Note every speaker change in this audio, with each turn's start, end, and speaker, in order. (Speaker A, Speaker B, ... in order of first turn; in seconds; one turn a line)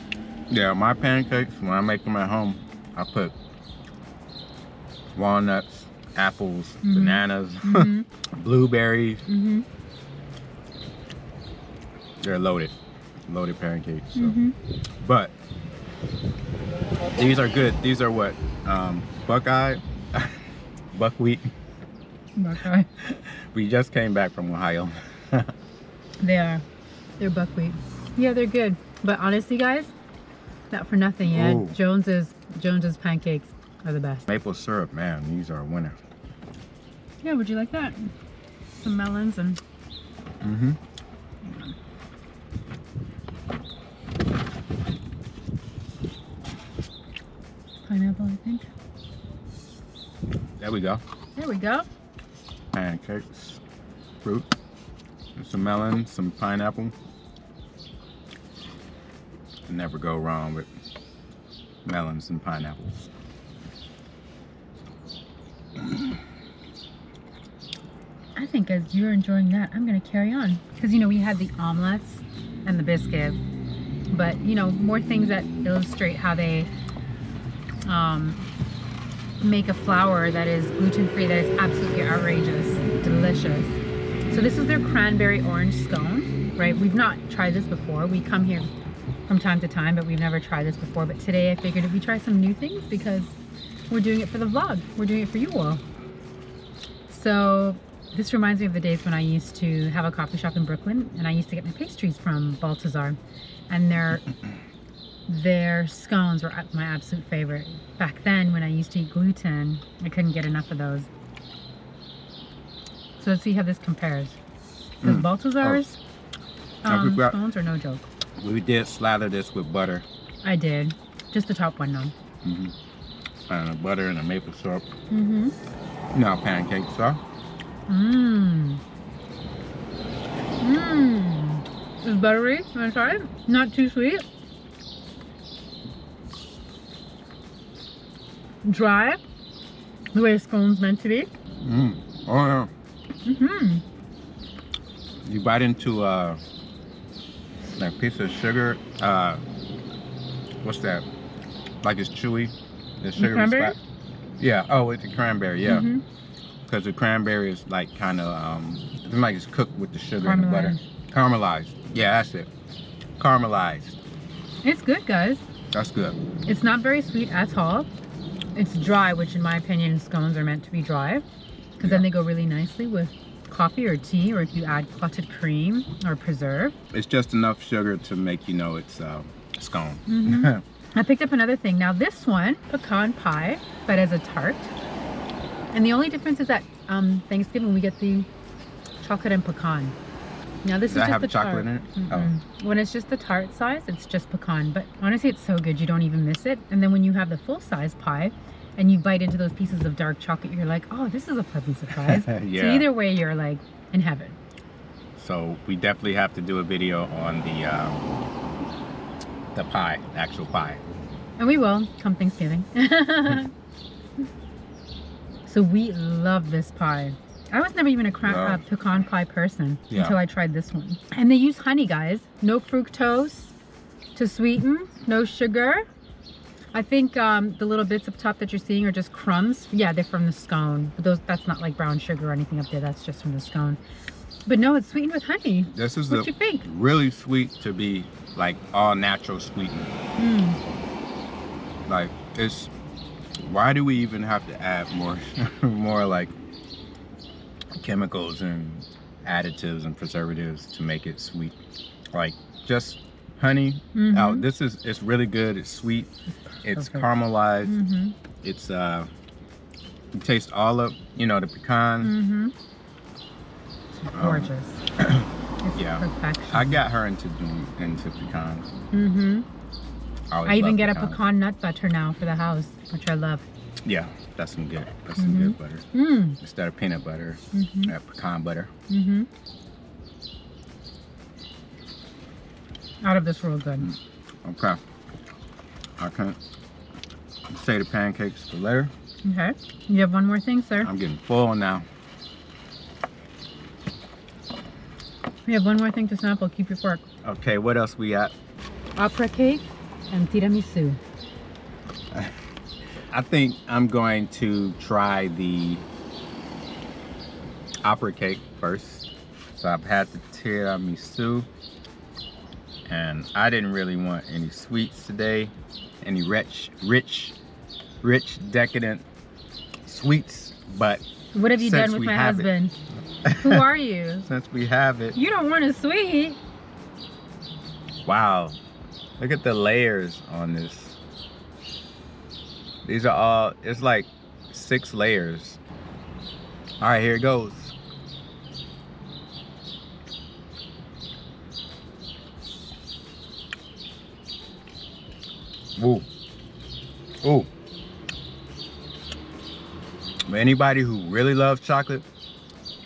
Speaker A: 0.5-3.3
Speaker A: 5.1-9.2
Speaker B: 6.8-8.1
Speaker B: 9.3-9.7
Speaker A: 12.2-12.7
Speaker A: 13.3-14.4
Speaker B: 14.2-14.6
Speaker A: 15.0-15.3
Speaker A: 17.1-20.4
Speaker A: 20.9-21.4
Speaker B: 22.4-22.9
Speaker A: 23.0-25.5
Speaker B: 26.2-26.6
Speaker B: 27.2-29.9
Speaker B: 30.7-34.3
Speaker A: 31.3-31.8
Speaker A: 34.3-36.0
Speaker B: 37.2-38.1
Speaker B: 38.8-39.6
Speaker A: 40.4-40.8
Speaker B: 41.4-41.8
Speaker B: 47.8-48.7
Speaker A: 50.6-51.0
Speaker B: 51.4-51.9
Speaker A: 52.7-53.6
Speaker A: 54.2-54.5
Speaker A: 55.4-56.9
Speaker A: 59.7-60.7
Speaker A: 61.9-63.1
Speaker B: 68.4-73.4
Speaker B: 74.1-76.7
Speaker B: 77.8-78.4
Speaker B: 79.4-88.7
Speaker B: 89.3-93.3
Speaker B: 93.9-95.8
Speaker B: 97.1-103.2
Speaker B: 103.7-104.3
Speaker B: 105.3-111.1
Speaker B: 113.2-114.4
Speaker A: 115.0-115.8
Speaker B: 115.0-116.0
Speaker B: 116.8-118.1
Speaker A: 116.9-117.4
Speaker A: 118.4-120.1
Speaker B: 120.4-122.1
Speaker A: 122.4-122.7
Speaker A: 123.5-124.9
Speaker B: 125.1-125.5
Speaker A: 126.1-127.2
Speaker B: 127.9-128.8
Speaker B: 130.6-134.2
Speaker B: 138.6-139.2
Speaker B: 140.1-141.3
Speaker A: 141.6-142.7
Speaker B: 143.3-143.8
Speaker A: 145.2-146.4
Speaker A: 147.8-149.4
Speaker A: 150.6-151.1
Speaker A: 151.8-153.8
Speaker B: 153.2-153.8
Speaker A: 154.4-155.9
Speaker B: 155.6-156.0
Speaker A: 156.7-162.5
Speaker B: 160.2-160.8
Speaker A: 163.2-164.0
Speaker B: 164.6-165.4
Speaker A: 165.7-166.2
Speaker B: 166.5-167.9
Speaker B: 168.6-171.2
Speaker B: 171.8-176.8
Speaker A: 176.9-180.6
Speaker B: 180.1-184.7
Speaker B: 185.7-188.3
Speaker B: 189.0-190.0
Speaker B: 190.6-204.4
Speaker A: 190.9-192.3
Speaker A: 201.9-202.9
Speaker A: 205.2-208.1
Speaker A: 209.5-210.8
Speaker B: 211.4-213.5
Speaker B: 215.5-223.5
Speaker A: 218.2-218.6
Speaker A: 219.9-220.2
Speaker B: 224.2-225.8
Speaker B: 226.7-233.8
Speaker B: 234.5-236.7
Speaker A: 235.7-239.9
Speaker B: 240.2-240.6
Speaker A: 241.9-242.7
Speaker A: 243.4-246.3
Speaker A: 247.7-251.6
Speaker A: 252.1-256.1
Speaker B: 253.9-254.5
Speaker B: 256.5-257.1
Speaker A: 256.6-257.8
Speaker B: 257.6-258.2
Speaker A: 258.4-259.1
Speaker A: 260.1-262.1
Speaker B: 262.0-262.5
Speaker B: 263.9-264.8
Speaker A: 264.1-268.7
Speaker B: 265.6-266.8
Speaker B: 268.9-269.5
Speaker A: 270.3-271.2
Speaker B: 270.5-273.4
Speaker A: 273.8-275.9
Speaker B: 275.2-276.4
Speaker A: 276.4-278.7
Speaker B: 277.5-277.9
Speaker B: 278.9-279.3
Speaker B: 283.0-283.9
Speaker A: 283.8-284.8
Speaker A: 286.0-286.4
Speaker A: 287.5-288.9
Speaker B: 289.2-290.9
Speaker A: 290.8-291.9
Speaker B: 295.5-297.0
Speaker A: 297.2-298.3
Speaker B: 299.0-301.0
Speaker A: 303.1-305.9
Speaker A: 307.8-311.5
Speaker A: 312.9-317.4
Speaker A: 318.0-319.1
Speaker A: 319.9-321.0
Speaker B: 321.3-322.7
Speaker A: 321.6-322.5
Speaker A: 323.2-323.6
Speaker B: 323.4-324.3
Speaker A: 324.3-325.2
Speaker B: 325.1-326.4
Speaker A: 328.1-328.6
Speaker A: 329.2-331.0
Speaker A: 332.9-335.6
Speaker A: 336.8-337.7
Speaker A: 345.8-346.1
Speaker A: 347.2-347.5
Speaker A: 350.3-352.1